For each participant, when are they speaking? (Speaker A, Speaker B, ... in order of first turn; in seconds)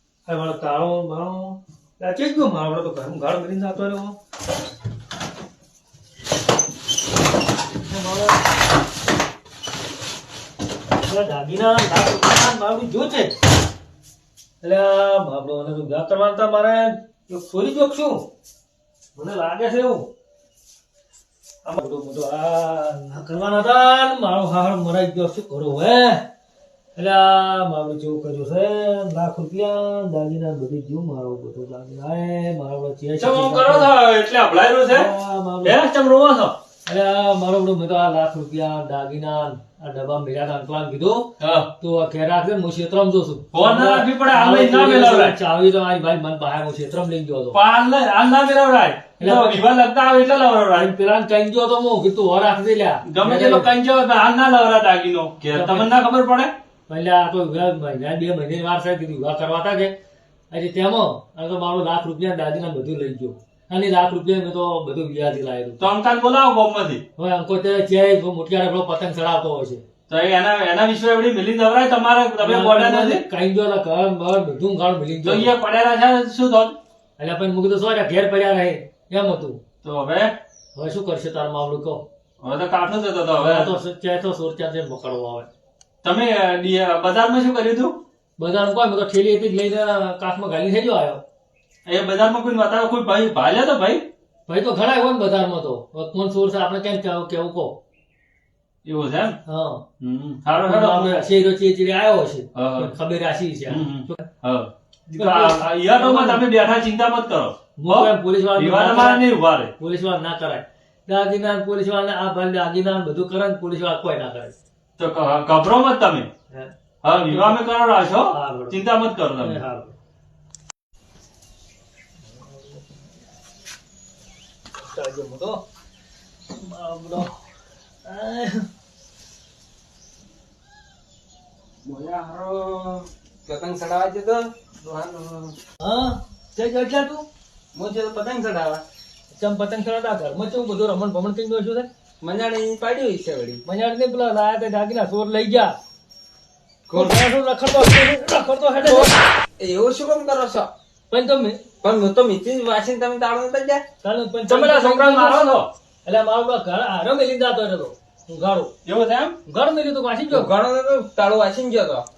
Speaker A: 0.3-4.2, 7.8-8.4, 11.1-13.3, 14.6-18.2, 19.1-20.1, 21.6-26.3, 27.0-33.9, 34.9-35.8, 36.9-47.6, 49.2-49.6, 50.8-53.7, 55.5-55.9, 56.9-60.0, 60.5-65.9, 67.2-69.8, 72.4-75.5, 77.2-79.6, 80.8-82.1, 83.4-85.5, 88.4-91.2, 94.5-97.8, 99.5-99.8, 100.6-104.2, 105.1-106.4, 107.8-109.3, 109.8-114.5, 116.5-117.6, 118.3-118.8, 119.4-120.0, 122.3-123.0, 124.8-125.6, 126.5-127.3, 128.0-128.7, 135.8-137.2, 139.3-141.9, 143.6-145.8, 146.9-149.2, 151.1-151.6, 154.0-155.4, 156.1-158.7, 159.5-160.5
Speaker B: 33.2-35.1, 35.6-36.6, 41.4-41.7, 43.5-45.4, 47.5-50.9, 53.1-56.5, 65.8-67.0, 70.1-73.2, 75.2-76.8, 79.8-80.3, 82.4-83.7, 86.0-88.0, 91.9-94.1, 98.8-99.4, 100.0-101.3, 102.5-102.9, 103.7-109.7, 115.0-116.3, 117.0-119.6, 154.5-155.7, 158.8-159.4
Speaker C: 131.8-135.6, 137.7-138.8, 142.2-143.6, 146.9-147.2, 148.8-150.7, 151.8-153.8, 160.3-162.1